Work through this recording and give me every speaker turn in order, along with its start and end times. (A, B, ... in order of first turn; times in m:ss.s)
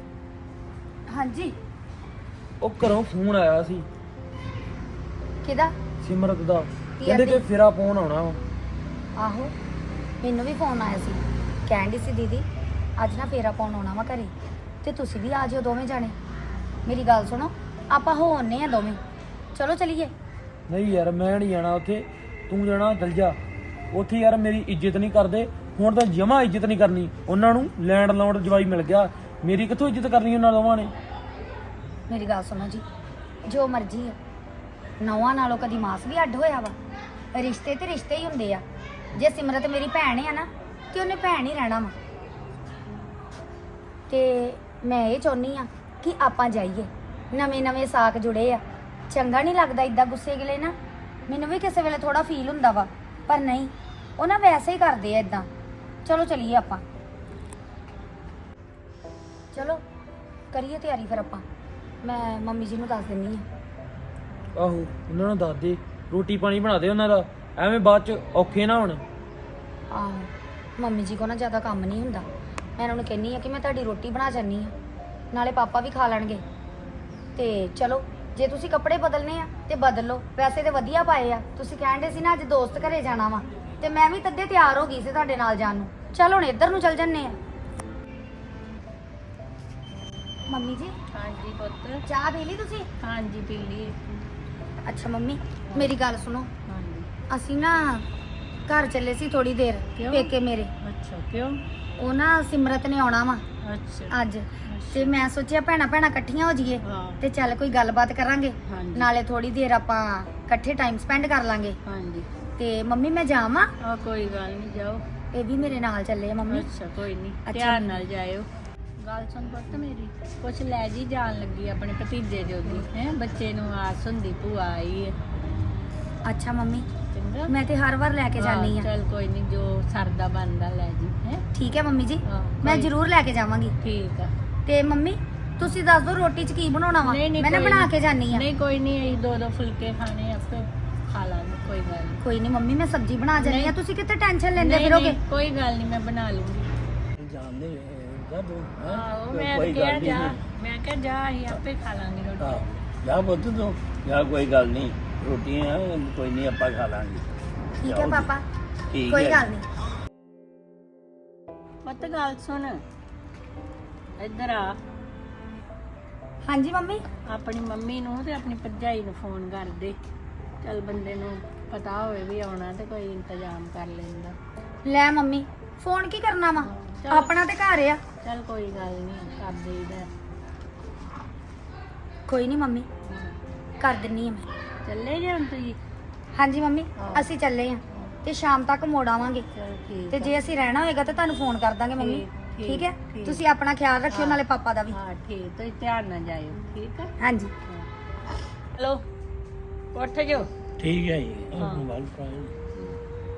0:01.1-0:01.5 A
0:02.6-0:03.8 B
0:05.4-0:05.7 A
0:06.0-0:08.4 B
0:07.0-0:07.4 A
0:09.2-0:09.5 A
0:10.2-0:12.4 A
0:13.0-0:14.3 A
0:14.8-0:16.1 A
0:16.8-0:19.0 A
0:19.5-0:20.1 A
0:20.7-0:23.4 B
0:23.9-0:30.9 B
0:32.1-0:32.8 A
0:33.5-0:34.2 A
0:35.0-0:36.7 A
0:37.3-0:38.6 A
0:39.2-0:41.9 A
0:44.1-0:50.7 A
0:51.3-0:55.5 A
0:56.0-0:56.8 A
0:59.5-0:59.8 A
1:00.5-1:01.4 A
1:02.0-1:03.4 A
1:04.6-1:09.0 B
1:09.9-1:14.7 A
1:15.3-1:16.4 A
1:17.4-1:27.4 A
1:30.5-1:30.9 A
1:31.1-1:32.0 C
1:32.1-1:32.9 A
1:33.0-1:34.0 C
1:34.8-1:36.5 A
1:35.7-1:36.0 C
1:36.7-1:37.1 C
1:37.3-1:38.0 A
1:38.7-1:40.7 A
1:40.0-1:40.3 C
1:40.8-1:41.6 C
1:42.0-1:43.4 A
1:43.6-1:44.1 C
1:44.1-1:51.8 A
1:44.7-1:45.2 C
1:46.8-1:47.2 C
1:48.6-1:49.1 C
1:51.8-1:52.3 C
1:52.6-1:53.7 A
1:53.8-1:55.0 C
1:55.3-1:56.7 A
1:56.5-1:58.4 C
1:57.4-1:58.0 A
1:59.0-2:05.1 C
2:06.3-2:06.8 A
2:07.1-2:07.5 C
2:07.5-2:08.9 A
2:08.3-2:11.4 C
2:11.5-2:13.7 A
2:12.3-2:12.9 C
2:13.8-2:14.3 C
2:14.6-2:18.5 A
2:17.0-2:22.2 C
2:22.2-2:25.2 A
2:23.4-2:23.8 C
2:24.6-2:26.7 C
2:27.2-2:30.4 D
2:28.9-2:32.7 C
2:32.4-2:37.2 D
2:37.8-2:38.4 A
2:37.8-2:38.3 D
2:38.9-2:39.5 D
2:39.0-2:39.6 A
2:41.8-2:42.8 C
2:44.2-2:44.8 C
2:46.4-2:47.0 A
2:47.3-2:50.0 C
2:50.6-2:54.3 C
2:54.8-2:58.0 A
2:56.8-2:57.3 C
2:58.2-3:00.1 C
3:02.3-3:02.9 A
3:03.8-3:04.4 A
3:04.8-3:05.8 C
3:06.4-3:09.4 A
3:07.0-3:07.3 C
3:09.5-3:10.4 C
3:10.1-3:15.0 A
3:12.0-3:13.4 C
3:14.1-3:17.1 C
3:17.2-3:17.5 A
3:18.8-3:19.0 C
3:19.9-3:20.5 C
3:20.8-3:22.5 D
3:21.6-3:21.8 C